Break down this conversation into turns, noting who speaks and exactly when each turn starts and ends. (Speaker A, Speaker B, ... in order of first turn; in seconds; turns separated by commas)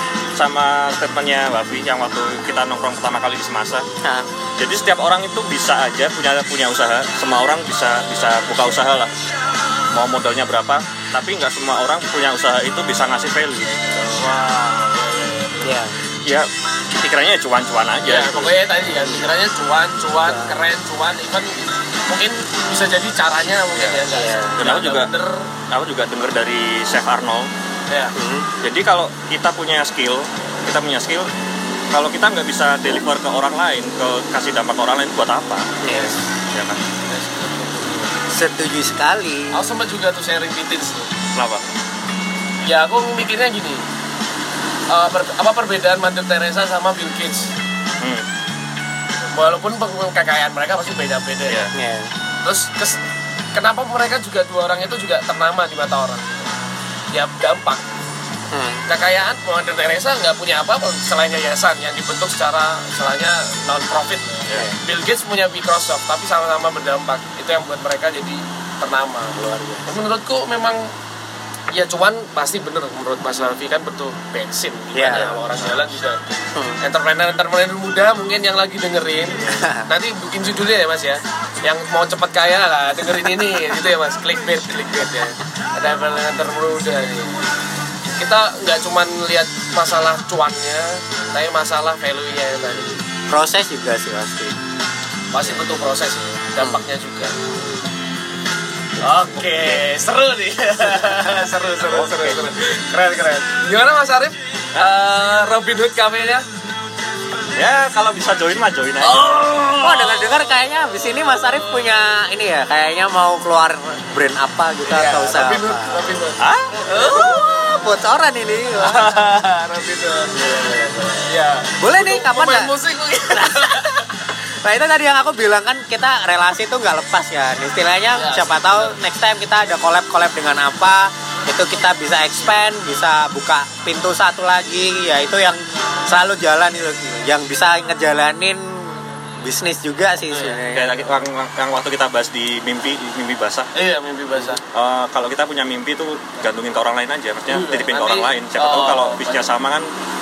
Speaker A: 0.3-3.9, Speaker B: 4.0-4.3, Speaker A: 4.6-9.1, Speaker A: 9.9-14.2, Speaker C: 14.2-15.8, Speaker B: 15.6-15.9, Speaker A: 16.2-18.6, Speaker C: 18.1-25.5, Speaker B: 20.2-20.6, Speaker B: 24.1-24.7, Speaker A: 24.6-25.1, Speaker A: 25.7-27.5, Speaker B: 28.1-28.5, Speaker A: 28.6-31.3, Speaker A: 31.9-36.8, Speaker B: 35.8-36.2, Speaker C: 37.1-38.1, Speaker B: 38.3-39.5, Speaker C: 39.5-41.1, Speaker A: 41.3-41.6, Speaker C: 42.7-43.8, Speaker C: 44.9-47.5, Speaker C: 49.3-51.7, Speaker B: 51.7-52.1, Speaker C: 52.4-53.0, Speaker C: 53.5-56.5, Speaker C: 57.1-57.8, Speaker B: 58.5-58.8, Speaker C: 58.9-70.9, Speaker B: 69.3-69.9, Speaker C: 71.7-87.4, Speaker B: 74.9-75.4, Speaker B: 76.5-76.8, Speaker B: 79.4-79.9, Speaker C: 88.2-93.0, Speaker B: 93.3-94.6, Speaker C: 95.3-97.3, Speaker C: 99.0-106.5, Speaker A: 102.0-102.4, Speaker A: 107.5-109.7, Speaker B: 109.0-116.0, Speaker C: 109.1-110.2, Speaker C: 114.9-117.4, Speaker A: 116.4-116.8, Speaker B: 116.9-119.2, Speaker C: 118.7-124.1, Speaker B: 121.8-141.2, Speaker C: 128.1-129.0, Speaker C: 140.3-140.6, Speaker A: 140.6-143.7, Speaker C: 143.7-144.6, Speaker A: 144.7-149.9, Speaker C: 147.5-149.5